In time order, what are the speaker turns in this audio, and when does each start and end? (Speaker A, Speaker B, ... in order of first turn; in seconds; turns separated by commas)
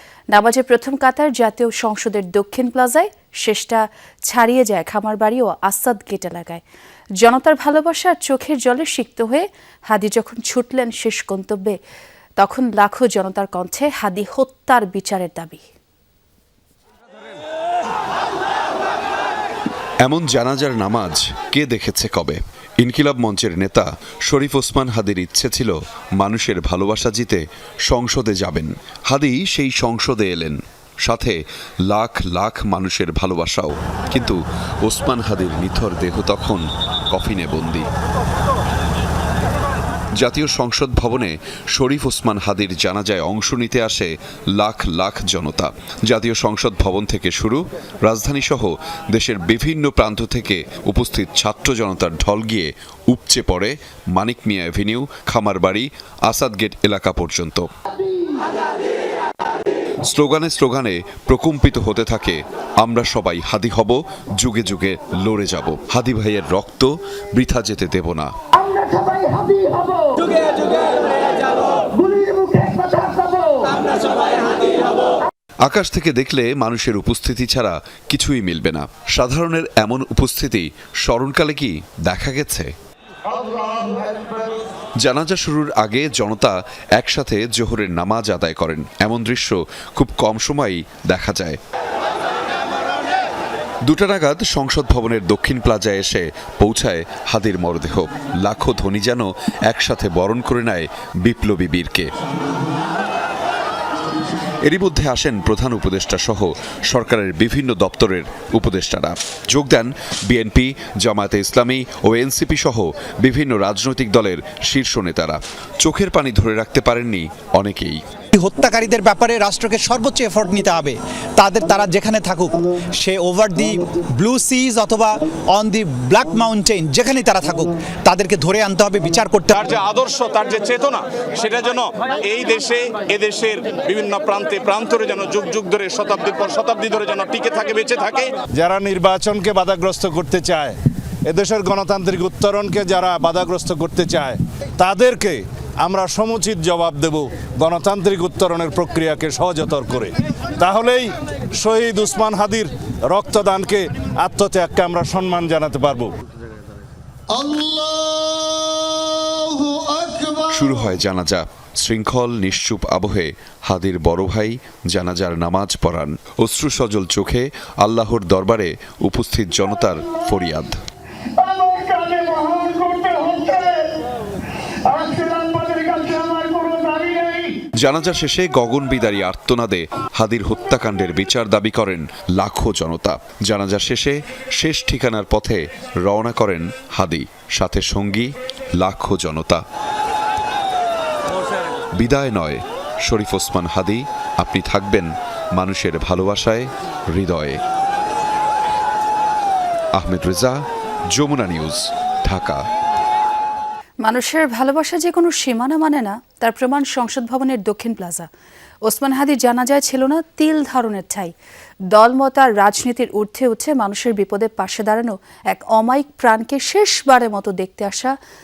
Speaker A: 0.3-6.6, Speaker A: 7.2-11.8, Speaker A: 12.4-15.6, Speaker B: 20.0-31.4, Speaker B: 31.9-37.9, Speaker B: 40.2-57.7, Speaker B: 60.1-68.3, Speaker C: 69.2-69.7, Speaker C: 72.2-73.3, Speaker B: 75.7-82.7, Speaker B: 85.0-91.6, Speaker B: 93.8-102.1, Speaker B: 104.7-118.0, Speaker D: 118.4-120.8, Speaker D: 121.4-122.4, Speaker D: 123.0-123.5, Speaker D: 124.2-125.0, Speaker D: 125.6-127.5, Speaker D: 128.1-129.5, Speaker E: 129.5-138.3, Speaker F: 138.6-140.7, Speaker F: 141.3-151.1, Speaker F: 151.6-156.1, Speaker B: 160.5-170.7, Speaker C: 171.4-173.8, Speaker C: 174.9-177.5, Speaker B: 177.8-189.6, Speaker B: 192.0-197.6, Speaker B: 200.0-200.6, Speaker B: 201.1-202.6, Speaker A: 204.1-208.3, Speaker A: 208.9-211.3, Speaker A: 211.9-218.1